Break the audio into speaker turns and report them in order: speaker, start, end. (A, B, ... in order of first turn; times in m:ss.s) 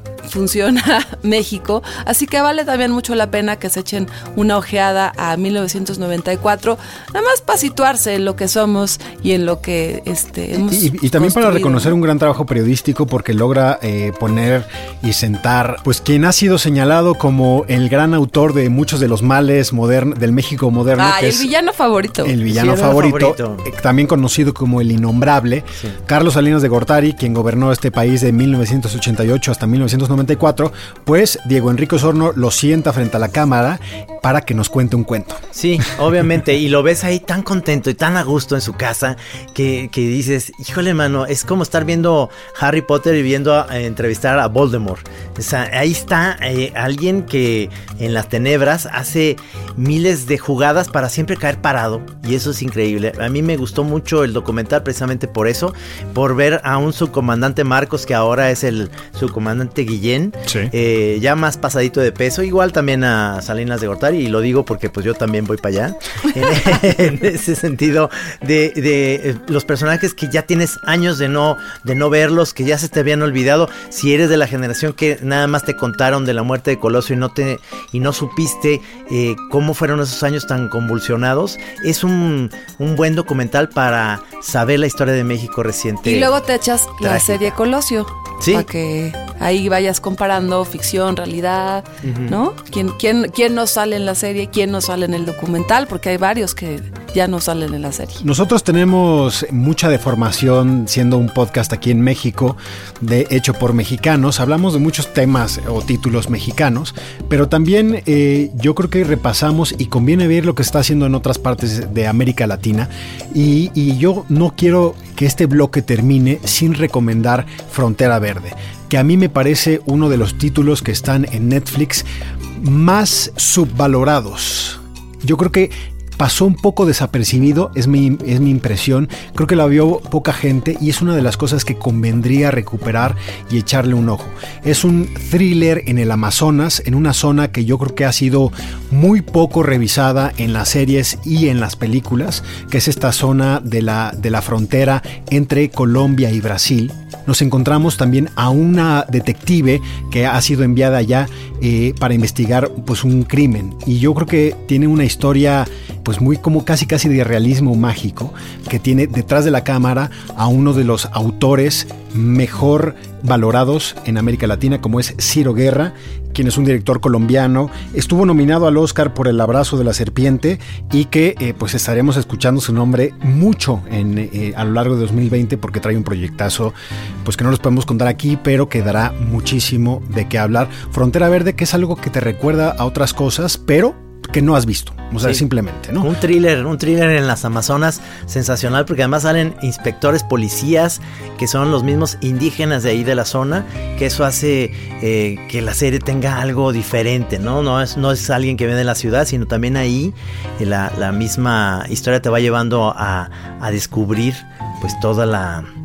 0:00.3-0:12.0 A
0:10.6-0:21.5 B
0:21.0-0:22.4 A
0:22.2-0:35.4 B
0:22.5-0:23.6 C
0:35.6-1:26.3 C
1:26.0-1:38.2 A
1:27.0-1:27.5 C
1:28.4-1:28.7 C
1:32.0-1:32.4 C
1:38.2-3:06.1 B
3:06.0-3:25.7 C